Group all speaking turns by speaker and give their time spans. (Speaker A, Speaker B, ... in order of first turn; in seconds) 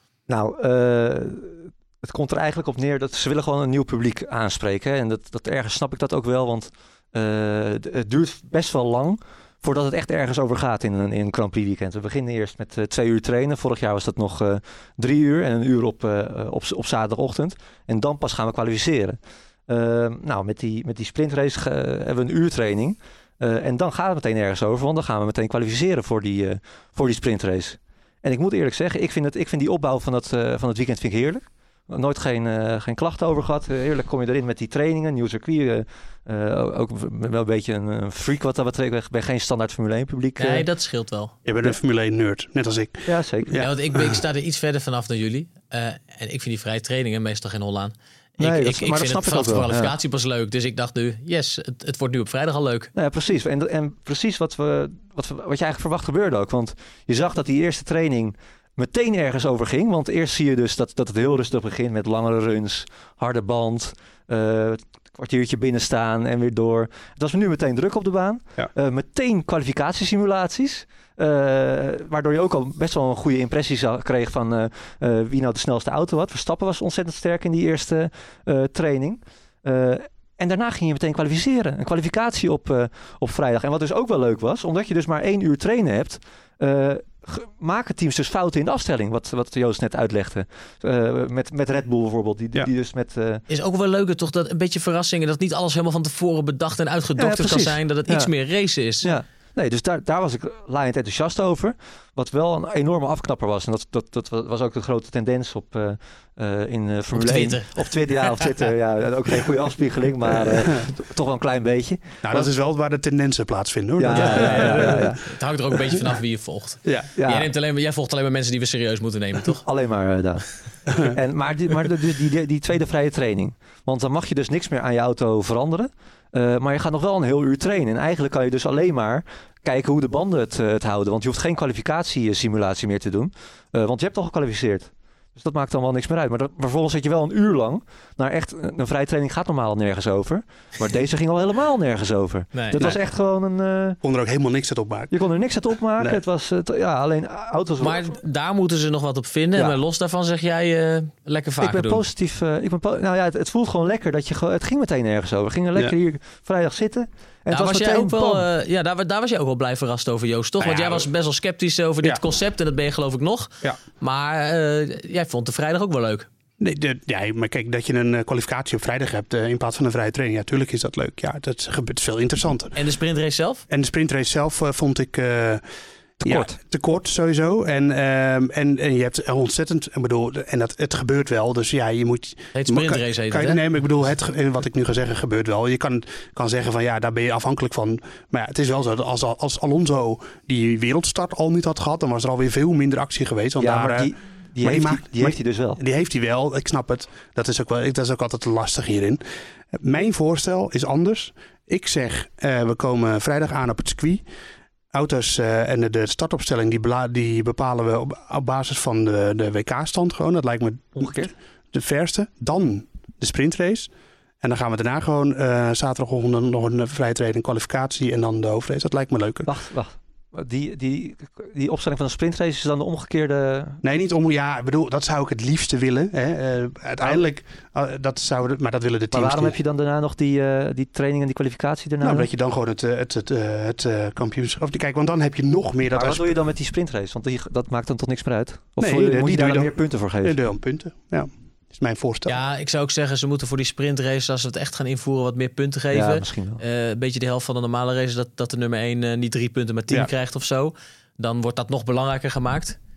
Speaker A: 0.3-40.6, 43.1-43.7, 48.4-49.9, 53.0-93.4, 97.2-98.3, 99.0-112.5, 114.0-115.2, 117.2-117.5, 119.6-144.0, 145.1-148.2, 151.6-158.5, 176.2-176.6, 193.6-195.8, 211.0-211.3, 219.5-223.8, 229.1-232.3, 235.9-240.4, 245.9-246.6
Speaker B: 40.4-41.3, 43.5-52.9, 93.5-99.1, 107.1-108.5, 114.1-119.6, 142.5-142.8, 147.8-152.0, 157.5-166.3, 172.8-173.6, 182.6-183.6, 242.3-252.8
Speaker C: 41.5-44.2, 112.2-115.1, 116.8-117.1, 144.0-145.2, 160.6-161.1, 166.6-172.8, 173.7-175.6, 176.2-199.2, 199.8-204.2, 204.9-213.9, 214.4-219.5, 223.8-229.6, 232.0-236.4, 238.8-242.3